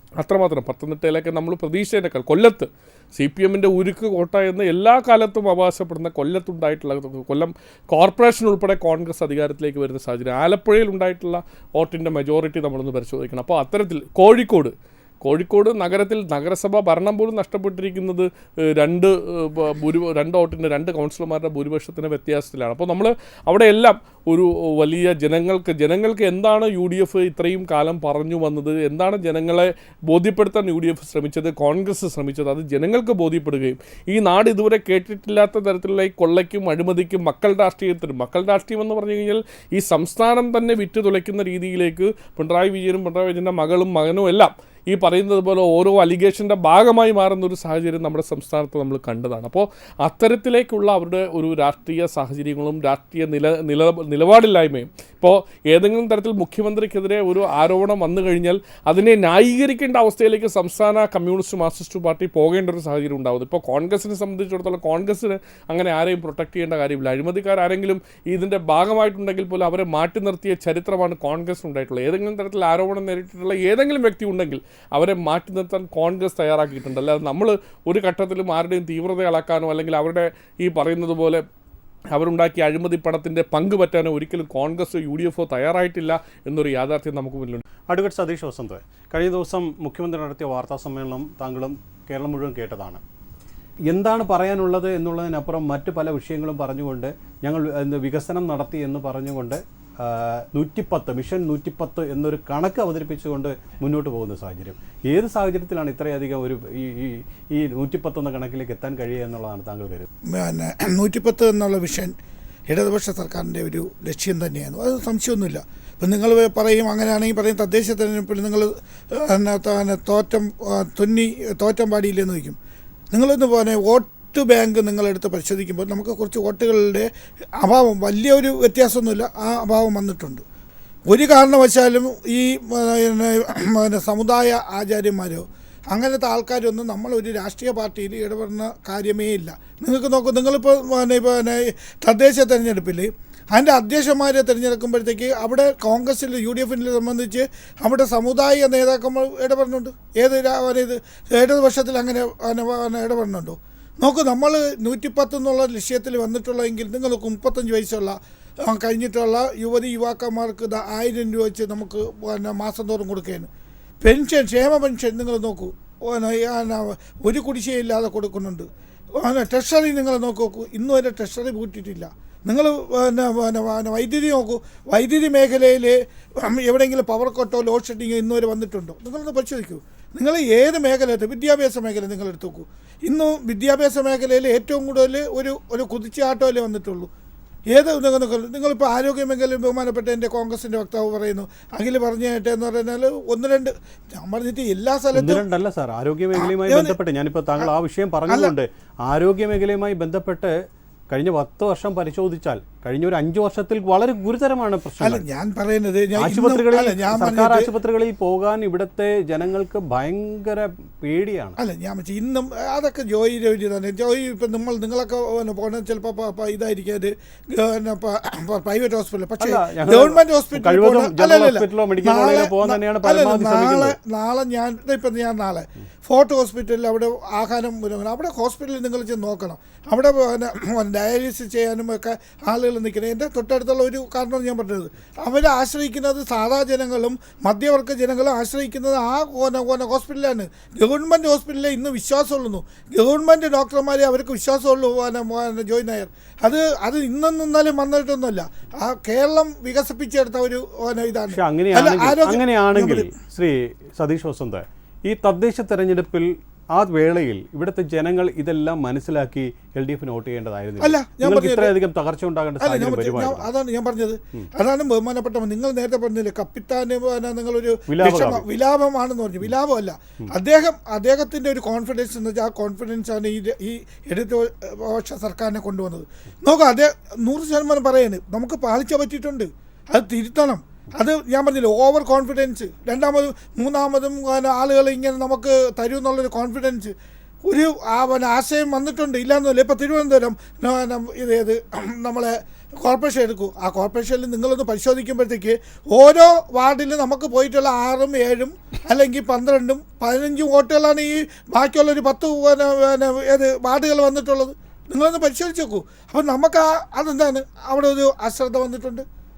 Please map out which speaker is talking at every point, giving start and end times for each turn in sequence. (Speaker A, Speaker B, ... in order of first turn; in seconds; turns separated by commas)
Speaker A: 0.2-81.4, Speaker A: 82.1-87.6, Speaker B: 87.9-93.0, Speaker B: 93.9-110.1, Speaker C: 110.3-112.1, Speaker C: 112.7-122.6, Speaker C: 123.1-130.4, Speaker C: 131.1-163.5, Speaker C: 164.0-187.1, Speaker C: 187.7-195.4, Speaker B: 195.1-200.5, Speaker C: 196.3-196.9, Speaker B: 201.1-205.2, Speaker C: 205.0-207.7, Speaker B: 206.2-211.6, Speaker C: 211.6-253.1, Speaker B: 219.4-224.0, Speaker B: 251.3-263.5, Speaker C: 260.8-261.8, Speaker C: 262.6-286.9, Speaker B: 267.9-268.4, Speaker C: 287.4-309.1